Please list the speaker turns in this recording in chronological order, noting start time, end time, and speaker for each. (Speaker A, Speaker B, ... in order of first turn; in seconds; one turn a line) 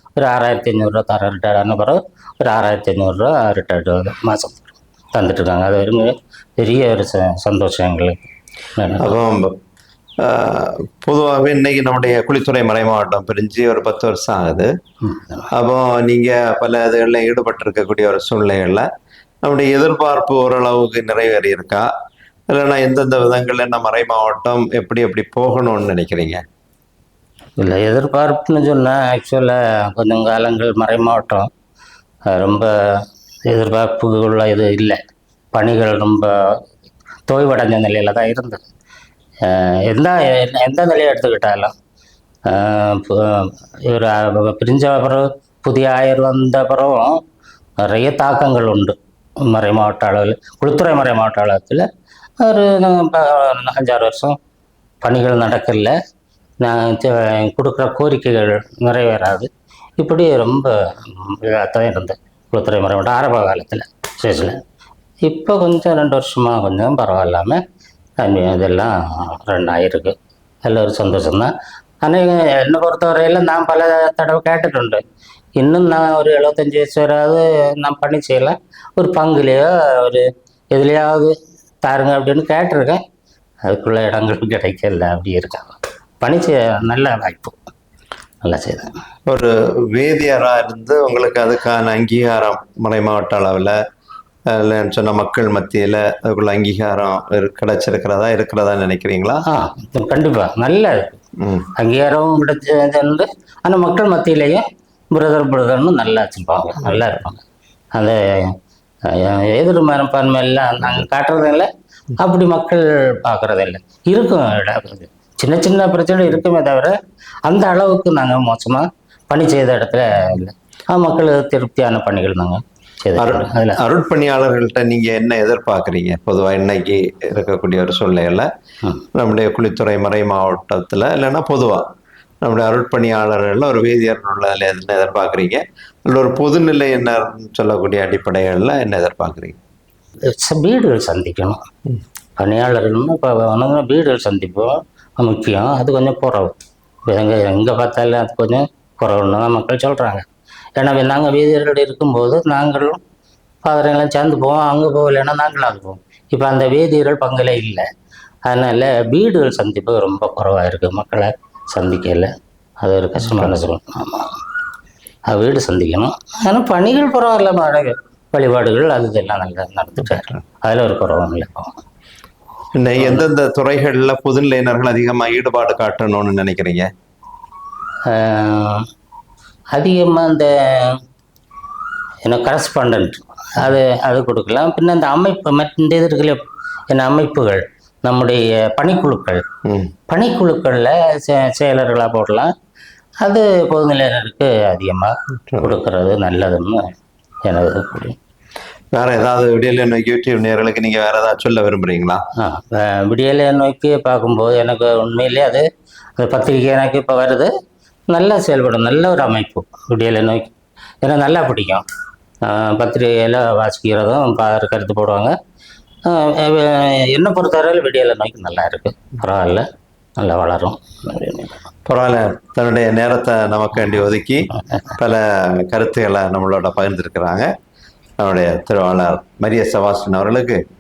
Speaker A: 0.2-9.2
Speaker B: 9.0-9.5
Speaker B: 10.2-14.7
Speaker A: 15.1-15.5
Speaker B: 15.5-18.9
Speaker B: 19.4-21.9
Speaker B: 22.5-26.4
Speaker A: 27.6-31.5
Speaker A: 32.3-35.0
Speaker A: 35.5-36.3
Speaker A: 37.3-38.6
Speaker A: 39.4-41.7
Speaker A: 42.5-47.2
Speaker A: 47.8-51.9
Speaker A: 52.4-54.4
Speaker A: 55.0-55.9
Speaker A: 56.6-64.6
Speaker A: 65.3-67.6
Speaker A: 68.2-71.5
Speaker A: 72.0-75.0
Speaker A: 75.6-83.0
Speaker A: 83.7-87.6
Speaker A: 88.4-88.9
Speaker B: 89.3-93.8
Speaker B: 94.5-99.4
Speaker A: 99.5-101.2
Speaker B: 101.4-101.7
Speaker A: 101.8-107.4
Speaker B: 106.8-107.2
Speaker A: 108.0-108.5
Speaker A: 109.0-111.7
Speaker A: 112.2-117.0
Speaker A: 117.5-123.8
Speaker B: 123.2-128.5
Speaker B: 129.2-131.9
Speaker B: 132.4-139.6
Speaker A: 140.3-141.6
Speaker A: 142.4-146.5
Speaker A: 147.1-150.2
Speaker A: 150.8-153.0
Speaker A: 153.6-157.8
Speaker A: 158.5-164.4
Speaker A: 165.3-171.7
Speaker B: 172.8-176.9
Speaker A: 173.0-173.2
Speaker A: 178.1-178.8
Speaker A: 179.8-181.0
Speaker A: 182.2-186.4
Speaker A: 186.9-189.4
Speaker B: 189.7-189.9
Speaker A: 190.1-192.5
Speaker A: 193.2-196.9
Speaker A: 197.5-198.2
Speaker B: 198.9-202.2
Speaker A: 202.4-205.7
Speaker A: 206.2-207.5
Speaker A: 208.1-210.5
Speaker A: 211.0-211.8
Speaker A: 212.4-215.3
Speaker A: 216.1-219.7
Speaker A: 220.2-221.6
Speaker B: 221.9-227.5
Speaker B: 228.2-230.6